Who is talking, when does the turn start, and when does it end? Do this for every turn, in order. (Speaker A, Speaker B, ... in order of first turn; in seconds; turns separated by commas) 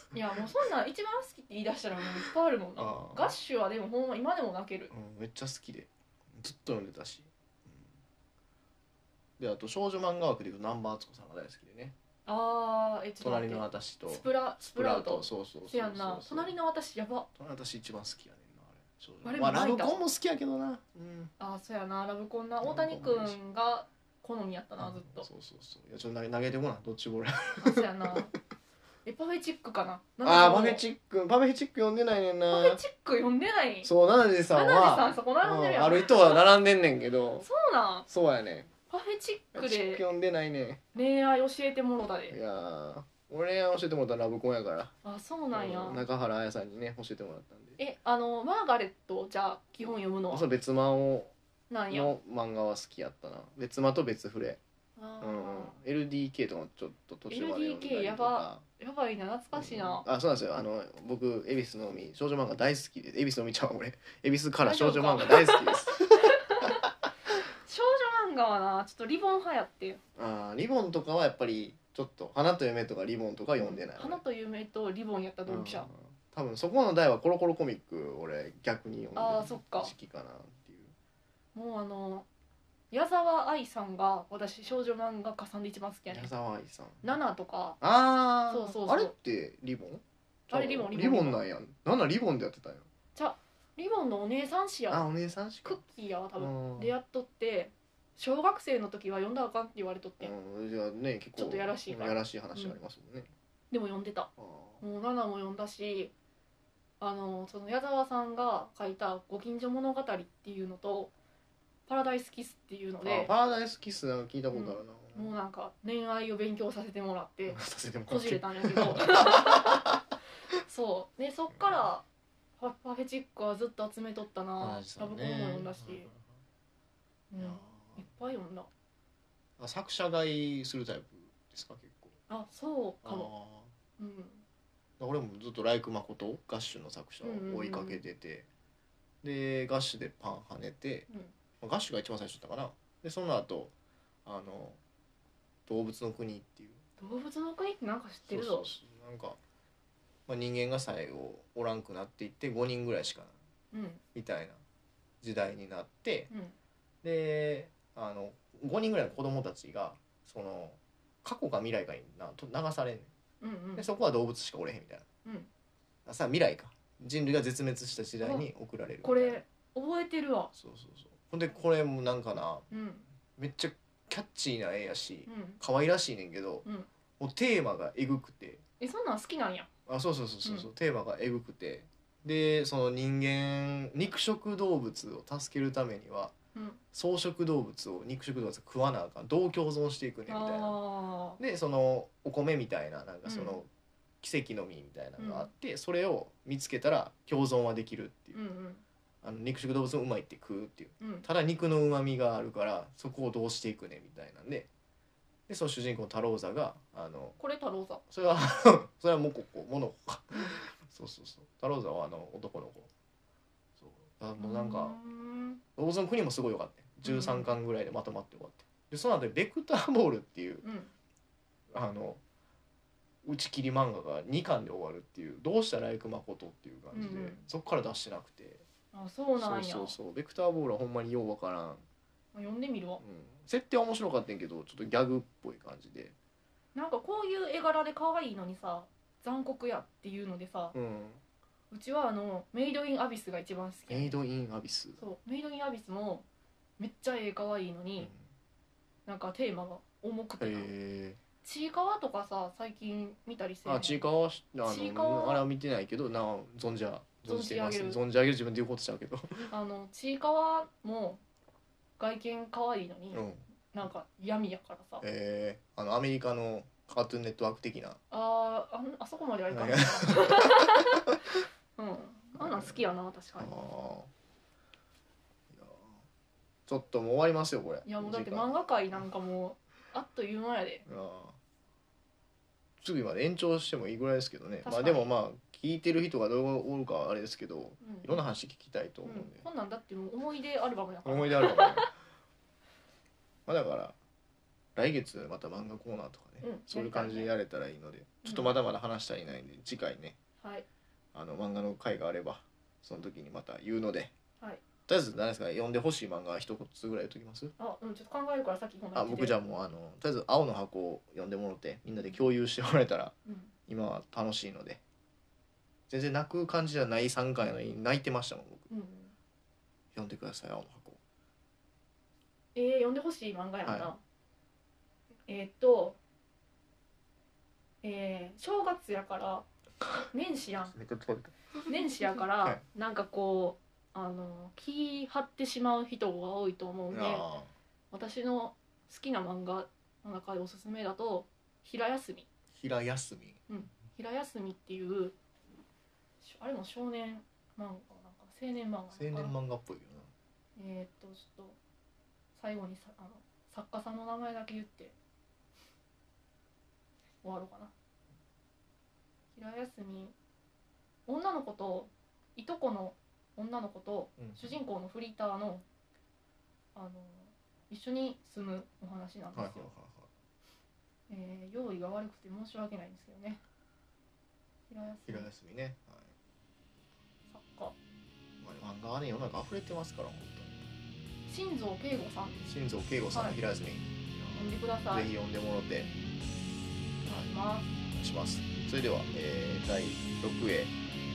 Speaker A: 0.1-4.9, Speaker B: 2.8-3.3, Speaker B: 4.9-7.9, Speaker B: 9.4-11.9, Speaker A: 12.2-17.3, Speaker B: 13.2-16.5, Speaker B: 17.3-21.3, Speaker A: 19.2-20.0, Speaker A: 21.4-25.2, Speaker B: 22.6-23.4, Speaker B: 24.8-28.4, Speaker A: 27.6-28.3, Speaker A: 29.0-30.8, Speaker B: 30.2-32.8, Speaker A: 32.5-33.9, Speaker B: 33.8-37.5, Speaker A: 34.5-36.4, Speaker A: 37.4-38.1, Speaker B: 38.1-38.7, Speaker A: 38.9-40.0, Speaker B: 39.5-40.8, Speaker A: 40.9-42.4, Speaker B: 42.3-44.9, Speaker A: 45.0-46.0, Speaker B: 45.5-47.8, Speaker A: 47.8-50.5, Speaker B: 50.3-51.3, Speaker A: 51.7-52.1, Speaker B: 51.9-54.6, Speaker A: 55.0-55.8, Speaker B: 55.2-58.6, Speaker A: 57.3-60.0, Speaker B: 59.5-66.8, Speaker A: 64.6-66.8, Speaker A: 67.3-70.0, Speaker B: 70.2-74.2, Speaker A: 73.6-75.9, Speaker B: 75.5-80.9, Speaker A: 79.2-79.9, Speaker A: 81.5-82.3, Speaker A: 82.9-86.3, Speaker B: 86.1-87.1, Speaker A: 87.0-87.8, Speaker B: 87.8-92.8, Speaker A: 88.5-89.1, Speaker A: 90.5-91.4, Speaker A: 93.1-95.1, Speaker B: 94.9-95.8, Speaker A: 95.6-100.3, Speaker B: 96.4-96.9, Speaker B: 100.2-103.3, Speaker A: 101.3-102.8, Speaker A: 103.7-104.3, Speaker B: 104.4-104.8, Speaker A: 104.8-106.1, Speaker A: 107.0-111.1, Speaker A: 111.9-113.3, Speaker B: 113.0-115.3, Speaker A: 114.5-119.9, Speaker B: 117.5-120.0, Speaker A: 120.6-122.0, Speaker A: 122.6-126.1, Speaker B: 124.6-126.2, Speaker A: 127.3-128.7, Speaker B: 127.4-128.1, Speaker B: 129.6-132.2, Speaker A: 132.3-133.3, Speaker B: 133.0-133.7, Speaker A: 134.0-134.4, Speaker B: 135.0-138.5, Speaker A: 137.2-138.0, Speaker B: 139.2-141.1, Speaker B: 141.6-143.7, Speaker B: 144.2-144.8, Speaker B: 145.7-146.8, Speaker A: 147.0-148.7, Speaker B: 148.2-149.4, Speaker B: 150.3-153.3, Speaker A: 153.7-154.0, Speaker B: 154.1-154.6, Speaker B: 155.2-156.3, Speaker A: 156.3-156.5, Speaker B: 157.0-163.1, Speaker A: 163.4-163.8, Speaker B: 163.8-165.0, Speaker B: 166.1-169.4, Speaker A: 168.2-168.4, Speaker A: 169.0-170.5, Speaker B: 170.5-172.7, Speaker A: 172.7-173.1, Speaker B: 173.4-176.7, Speaker A: 175.2-175.6, Speaker B: 177.2-178.6, Speaker A: 178.8-179.7, Speaker B: 179.9-186.3, Speaker A: 180.4-180.7, Speaker A: 186.5-186.8, Speaker B: 186.9-190.8, Speaker A: 190.3-191.4, Speaker B: 191.4-193.7, Speaker A: 193.2-193.6, Speaker B: 194.2-198.4, Speaker A: 195.2-195.5, Speaker A: 198.3-198.8, Speaker B: 199.2-204.7, Speaker B: 205.5-207.4, Speaker A: 207.4-208.0, Speaker B: 208.1-212.9, Speaker B: 213.8-215.0, Speaker A: 214.4-215.6, Speaker B: 215.8-220.6, Speaker A: 217.0-217.5, Speaker A: 220.6-220.9, Speaker B: 221.7-222.2, Speaker B: 223.2-228.6, Speaker A: 226.9-227.4, Speaker A: 228.9-229.9, Speaker B: 229.3-231.8, Speaker A: 232.3-233.0, Speaker B: 233.0-236.1, Speaker A: 236.7-240.7, Speaker B: 240.7-241.2, Speaker A: 241.7-244.2, Speaker B: 243.9-245.0, Speaker A: 245.0-246.2, Speaker A: 246.8-248.1, Speaker A: 249.1-250.7, Speaker B: 250.4-251.2, Speaker A: 251.4-254.0, Speaker B: 253.6-259.5, Speaker A: 254.6-255.4, Speaker A: 257.2-258.0, Speaker A: 259.5-261.2, Speaker A: 262.0-265.0, Speaker B: 263.1-263.4, Speaker B: 265.0-268.0, Speaker A: 268.1-271.1, Speaker B: 269.5-270.7, Speaker A: 271.8-273.5, Speaker B: 272.4-272.8, Speaker B: 273.4-274.1, Speaker B: 275.5-276.0, Speaker B: 276.7-279.0, Speaker A: 277.8-280.8, Speaker B: 280.9-281.4, Speaker B: 282.8-289.4, Speaker A: 284.6-285.1, Speaker A: 287.8-288.2, Speaker A: 289.0-291.9, Speaker B: 291.0-291.9, Speaker B: 293.4-293.9, Speaker B: 294.8-300.2, Speaker A: 296.4-297.3, Speaker B: 301.1-304.1, Speaker B: 304.9-307.5, Speaker A: 307.6-309.4, Speaker B: 308.9-313.1, Speaker A: 313.2-313.5, Speaker B: 313.7-314.8, Speaker B: 315.9-318.7, Speaker A: 318.7-319.1, Speaker B: 319.9-321.0, Speaker A: 322.5-324.0, Speaker B: 323.6-323.9, Speaker A: 325.3-326.0, Speaker A: 327.8-329.4, Speaker A: 330.1-330.8, Speaker B: 330.7-332.6, Speaker A: 331.7-337.3, Speaker B: 336.9-337.5, Speaker A: 337.9-342.3, Speaker B: 342.5-343.4, Speaker A: 343.5-345.1, Speaker A: 346.2-349.3, Speaker B: 348.9-350.1, Speaker A: 350.6-351.6, Speaker A: 352.3-354.9, Speaker A: 357.2-357.7, Speaker A: 359.3-360.1, Speaker A: 361.1-365.6, Speaker B: 364.2-364.5, Speaker A: 366.7-369.7, Speaker B: 369.3-370.1, Speaker A: 371.1-373.4, Speaker A: 374.7-375.3, Speaker B: 375.0-376.1, Speaker A: 377.3-377.7, Speaker B: 378.4-380.7, Speaker A: 381.3-382.5, Speaker B: 382.5-385.9, Speaker A: 383.1-383.4, Speaker A: 384.3-385.1, Speaker B: 387.0-387.3, Speaker A: 387.1-387.7, Speaker B: 387.9-390.7